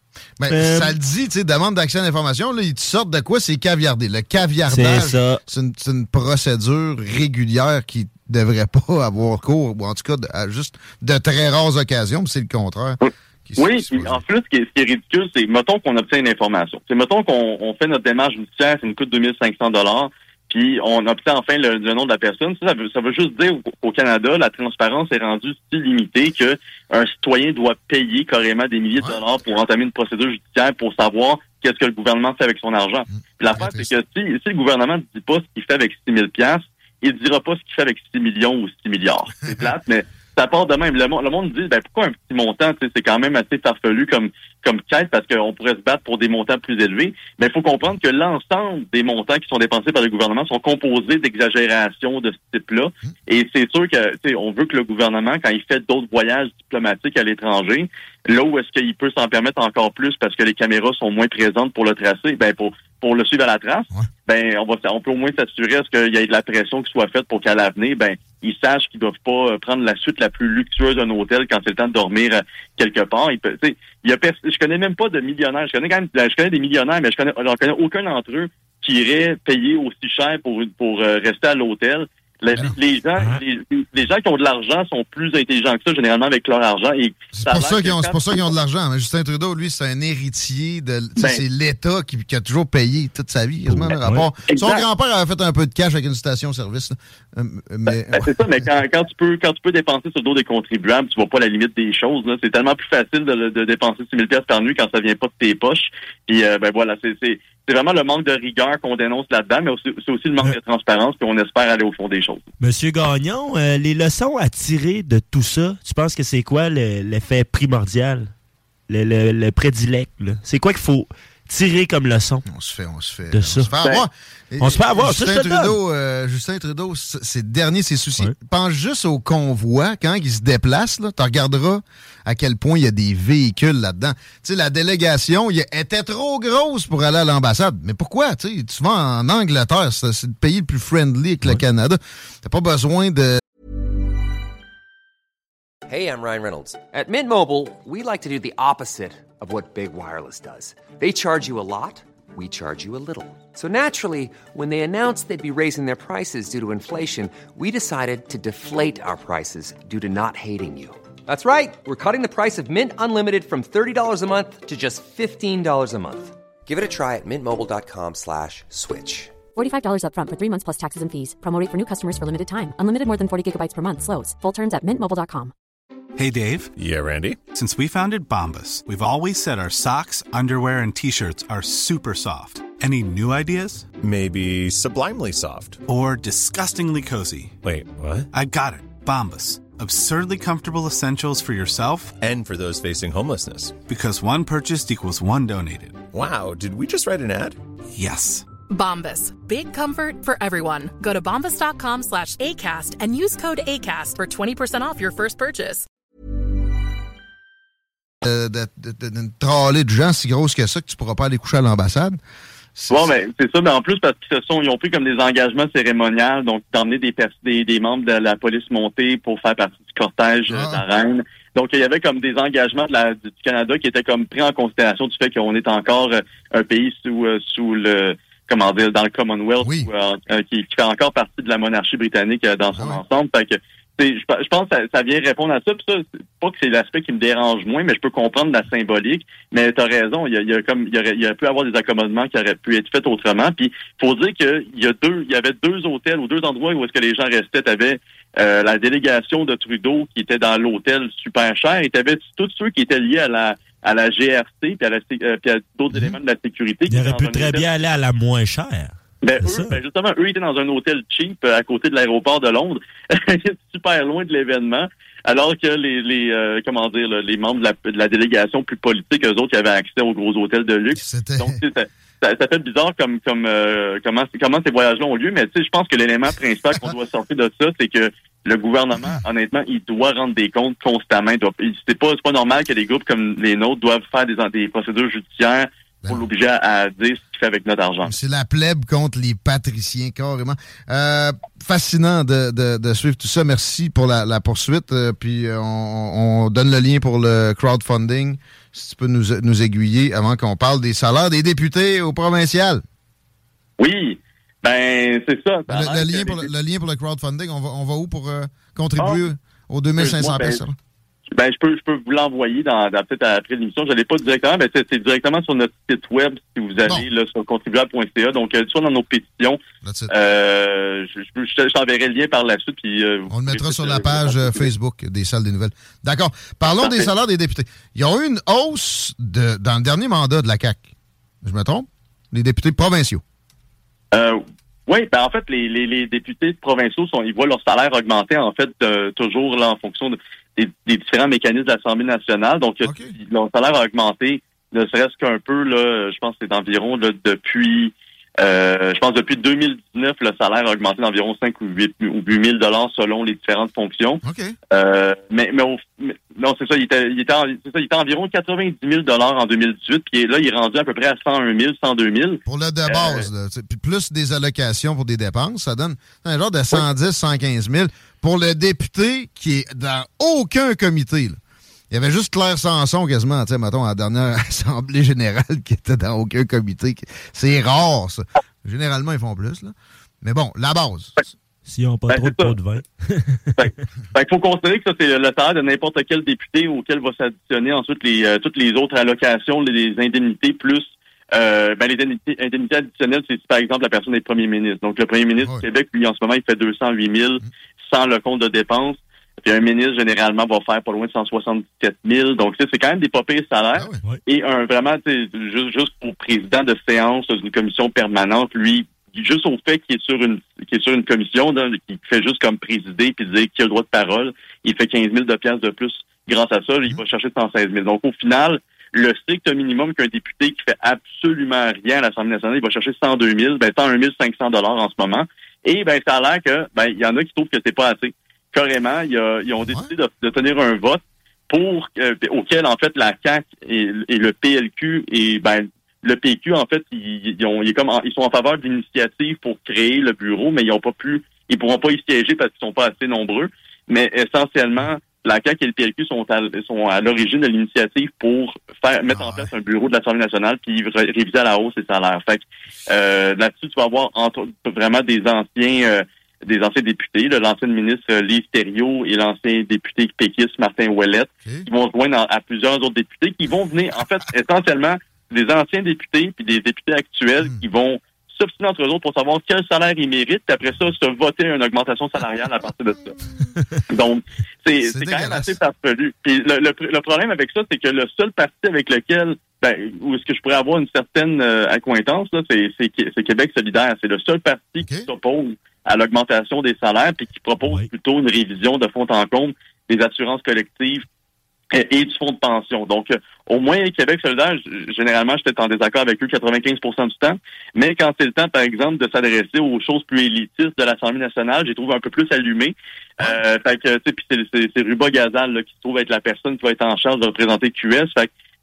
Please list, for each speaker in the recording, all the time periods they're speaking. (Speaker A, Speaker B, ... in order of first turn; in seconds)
Speaker A: 0.4-14.2, 33.5-33.9, 87.3-98.3, 122.5-143.4, 208.2-212.2, 212.8-213.1, 220.5-220.8, 229.6-229.9, 232.8-233.0, 271.0-271.6, 279.0-279.2, 288.0-302.8, 305.7-310.8, 319.8-320.1, 323.3-330.9, 331.4-333.2, 342.8-343.1, 354.2-354.6, 362.5-371.4, 371.9-381.2, 403.8-404.0, 449.1-449.5, 474.9-475.6, 484.8-485.1
Speaker B: 0.5-0.9, 4.7-5.4, 93.7-94.3, 112.6-118.3, 118.9-122.5, 123.3-123.7, 124.6-125.8, 256.9-259.8, 381.7-383.6
Speaker C: 13.6-88.5, 91.2-91.4, 94.5-94.8, 97.9-112.4, 212.9-257.7, 259.2-288.1, 303.8-306.5, 310.0-310.6, 311.3-324.7, 326.8-327.1, 334.1-363.3, 382.1-382.6, 383.6-473.1, 473.9-491.1, 491.7-508.3
Speaker D: 145.9-169.4
Speaker E: 169.5-175.5
Speaker F: 176.2-176.7, 177.5-183.9, 185.9-187.6, 188.3-192.2, 193.9-196.1, 197.9-198.5
Speaker G: 176.8-177.4, 184.0-185.8, 187.6-188.3, 192.2-193.8, 196.1-197.6
Speaker H: 198.7-205.8